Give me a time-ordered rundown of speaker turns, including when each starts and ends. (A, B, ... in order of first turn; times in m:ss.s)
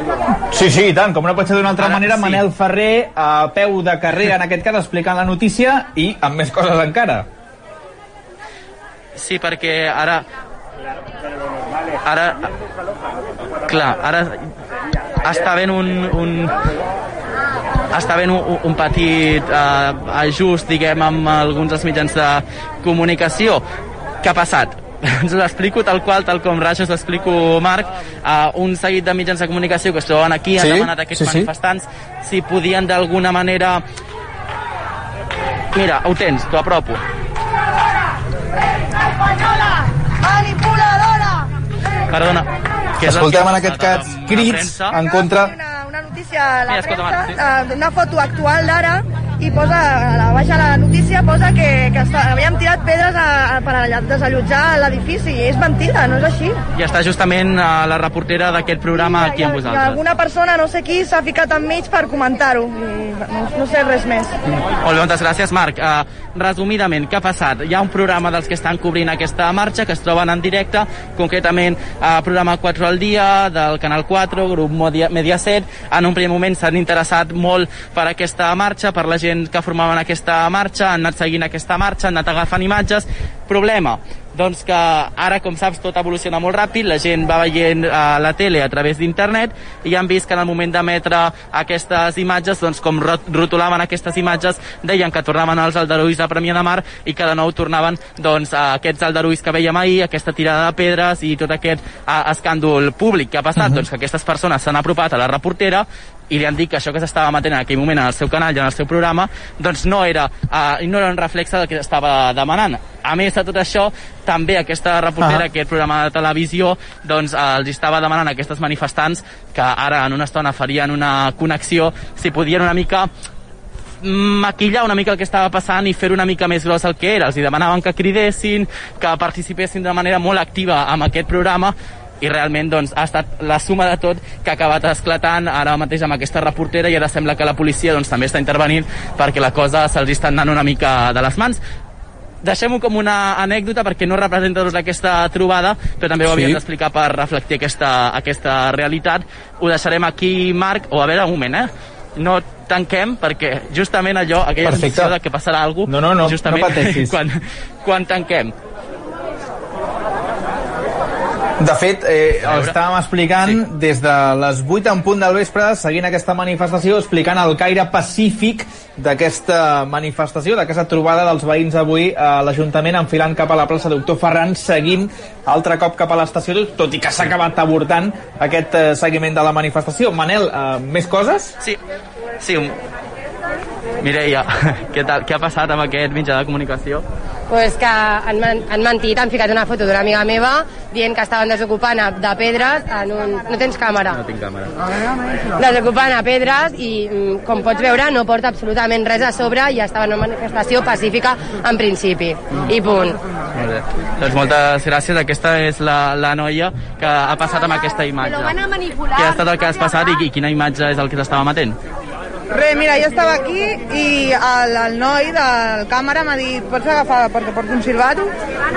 0:00.5-0:07.3 A
0:01.8-0:02.4 B
0:09.2-0:10.2 B
0:12.0-0:12.5 B
0:13.7-0:14.4 B
0:15.2-0:16.5 B
0:17.9-0:23.6 B
0:24.2-0:33.8 B
0:30.6-0:31.5 A
0:35.7-0:37.0 B
0:40.2-0:41.4 C
0:42.1-0:45.0 B
0:43.0-0:45.5 A
0:45.1-0:56.6 C
0:46.7-0:47.4 B
0:56.8-1:00.0 B
0:59.0-1:04.3 C
1:04.8-2:03.1 B
2:04.0-2:21.6 B
2:22.4-2:38.5 B
2:26.3-2:26.6 A
2:34.6-2:35.1 A
2:35.9-2:37.2 A
2:41.6-3:01.6 A
2:42.4-2:42.7 B
3:02.4-3:02.8 B
3:04.0-3:07.0 B
3:07.5-3:14.2 D
3:14.1-3:14.7 B
3:15.6-3:23.2 D
3:23.6-3:28.6 B
3:29.1-3:31.8 B
3:32.5-3:38.3 E